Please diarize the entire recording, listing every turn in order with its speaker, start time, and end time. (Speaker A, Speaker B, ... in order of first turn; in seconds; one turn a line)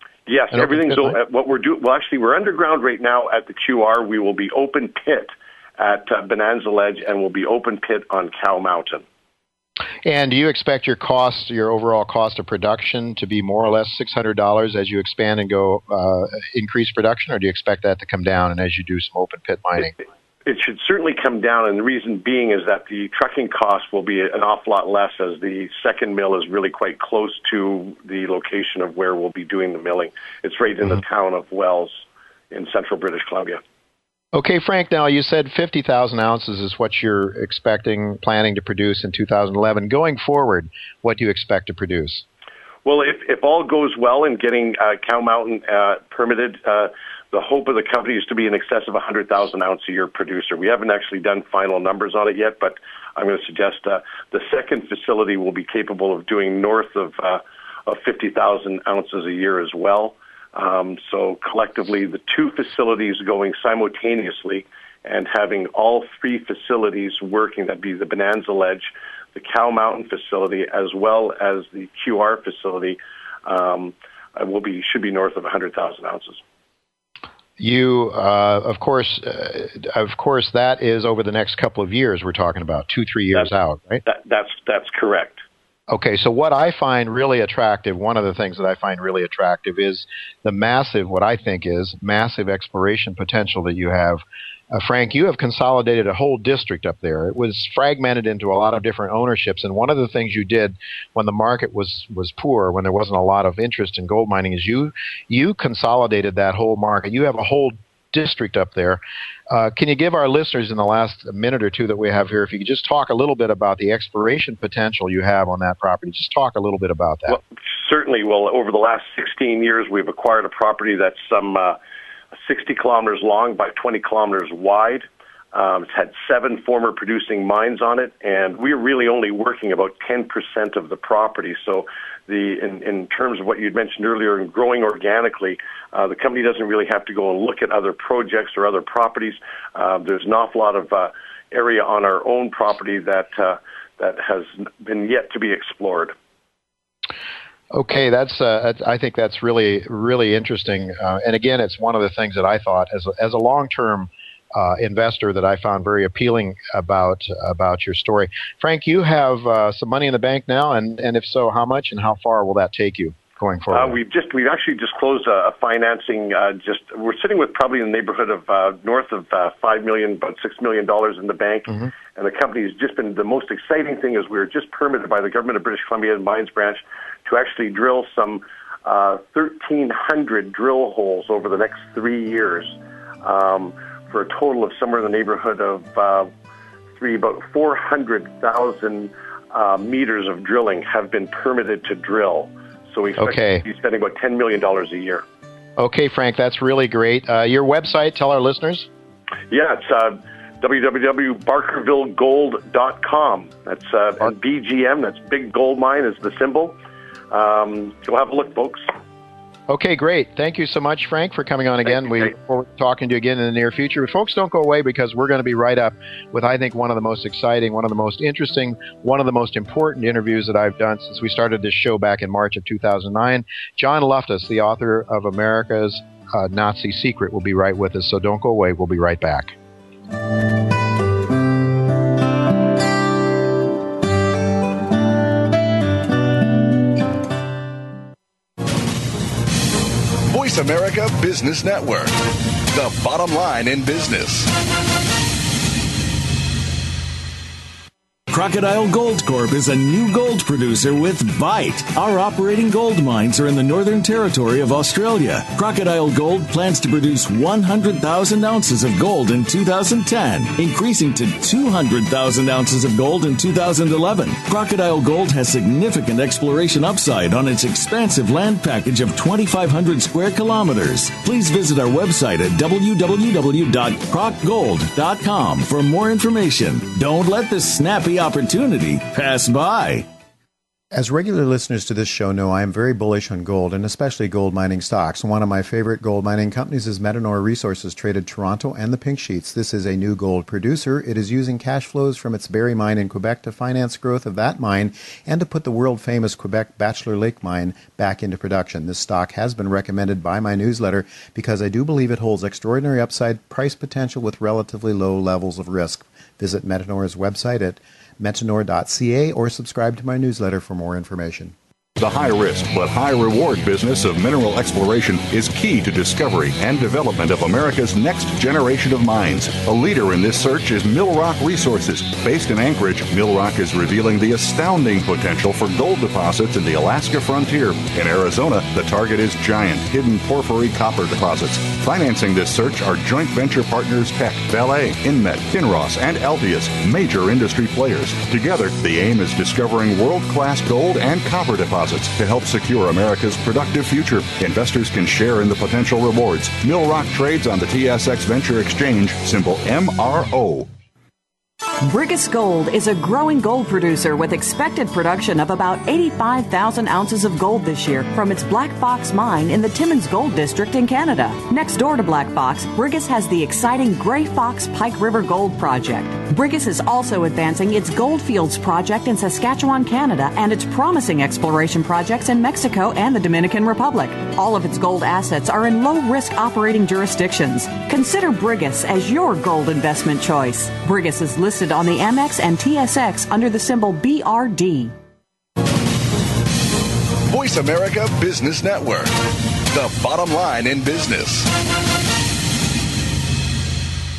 Speaker A: 0.3-9.0
Speaker B: 0.5-1.1
Speaker B: 10.0-19.9
Speaker A: 20.4-33.6
Speaker B: 34.3-42.2
Speaker A: 42.8-76.4
Speaker B: 77.6-84.0
Speaker A: 84.0-85.4
Speaker B: 85.9-117.4
Speaker A: 117.3-121.8
Speaker A: 122.4-146.1
Speaker B: 147.7-164.0
Speaker A: 163.7-186.3
Speaker A: 187.0-195.2
Speaker B: 193.2-193.6
Speaker B: 195.8-198.9
Speaker A: 199.5-206.7
Speaker A: 207.3-208.8
Speaker B: 209.7-229.5
Speaker A: 211.9-212.3
Speaker C: 240.3-244.5
Speaker D: 248.3-280.1
Speaker E: 280.9-311.5
Speaker F: 312.0-350.7
Speaker G: 351.8-384.9
Speaker C: 387.3-391.5